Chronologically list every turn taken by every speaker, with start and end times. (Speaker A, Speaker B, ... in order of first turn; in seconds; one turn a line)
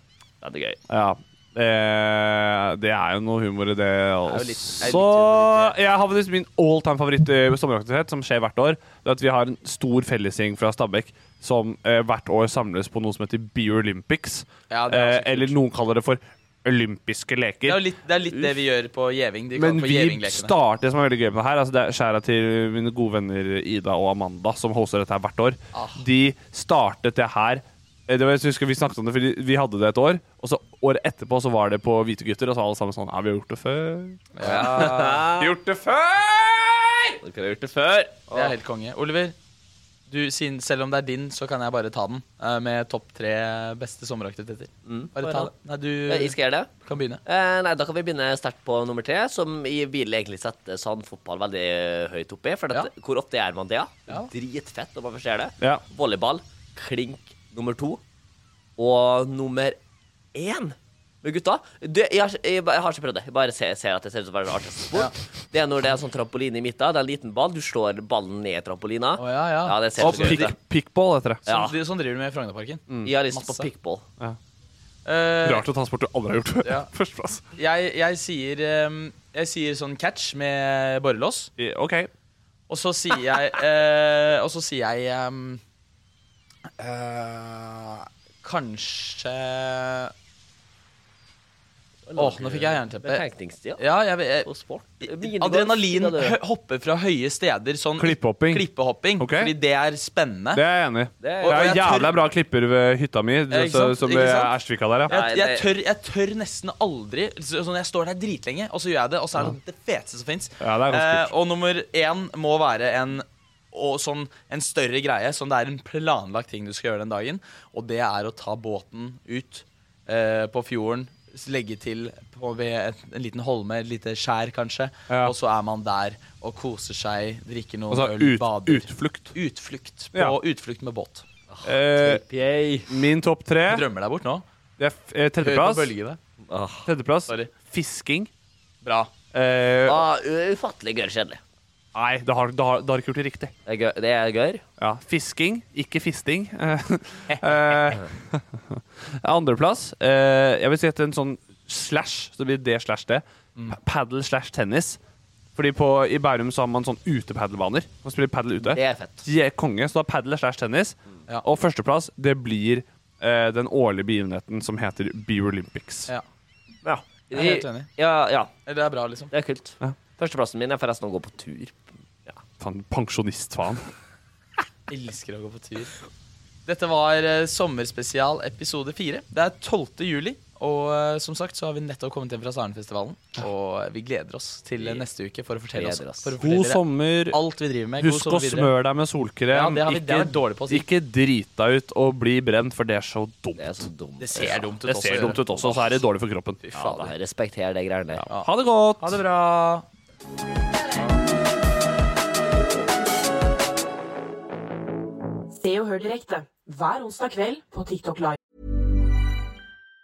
Speaker A: 0.4-0.8
Speaker B: 0.9-17.8
Speaker C: 4.3-5.7
Speaker C: 14.7-15.5
Speaker C: 17.6-20.5
Speaker B: 19.5-37.2
Speaker C: 25.7-26.0
Speaker C: 34.3-35.2
Speaker A: 34.4-35.5
Speaker A: 37.2-38.5
Speaker C: 38.3-39.3
Speaker C: 40.1-47.2
Speaker A: 44.8-45.5
Speaker A: 46.1-46.7
Speaker A: 47.2-58.0
Speaker A: 58.8-59.8
Speaker A: 60.3-70.5
Speaker C: 69.2-70.5
Speaker B: 70.0-71.5
Speaker A: 71.5-71.7
Speaker C: 71.5-73.7
Speaker B: 72.9-73.1
Speaker A: 73.0-74.0
Speaker C: 75.0-75.6
Speaker B: 75.4-77.4
Speaker C: 77.5-81.5
Speaker B: 81.6-82.1
Speaker C: 82.7-85.6
Speaker C: 86.8-90.1
Speaker A: 92.1-93.8
Speaker C: 92.2-93.2
Speaker C: 93.8-94.5
Speaker A: 94.4-96.4
Speaker C: 95.0-100.6
Speaker B: 98.0-98.7
Speaker B: 99.2-99.5
Speaker B: 100.5-105.1
Speaker A: 101.2-101.7
Speaker C: 101.4-102.2
Speaker C: 103.5-104.5
Speaker A: 105.1-105.7
Speaker C: 105.1-131.2
Speaker B: 110.6-111.3
Speaker B: 125.1-125.3
Speaker B: 127.9-129.3
Speaker A: 131.5-132.9
Speaker B: 131.7-132.2
Speaker B: 132.9-133.8
Speaker C: 133.7-134.4
Speaker B: 134.8-135.9
Speaker C: 135.4-136.2
Speaker A: 136.4-136.9
Speaker B: 136.8-138.3
Speaker C: 137.3-137.5
Speaker C: 138.8-139.1
Speaker B: 139.3-140.0
Speaker A: 139.8-141.4
Speaker B: 141.9-143.5
Speaker A: 143.7-144.6
Speaker B: 144.8-155.0
Speaker C: 147.3-147.8
Speaker B: 155.5-166.1
Speaker A: 158.7-159.2
Speaker A: 166.8-168.5
Speaker C: 167.3-167.9
Speaker C: 168.7-169.3
Speaker A: 169.3-172.4
Speaker B: 172.6-173.9
Speaker C: 174.9-175.9
Speaker C: 176.7-188.7
Speaker A: 184.8-185.0
Speaker A: 185.7-186.3
Speaker B: 186.4-187.4
Speaker B: 188.0-196.6
Speaker C: 189.5-190.8
Speaker A: 193.6-195.3
Speaker C: 194.2-196.0
Speaker C: 196.6-197.1
Speaker A: 196.7-198.2
Speaker B: 198.2-199.2
Speaker C: 199.0-199.9
Speaker D: 205.5-208.3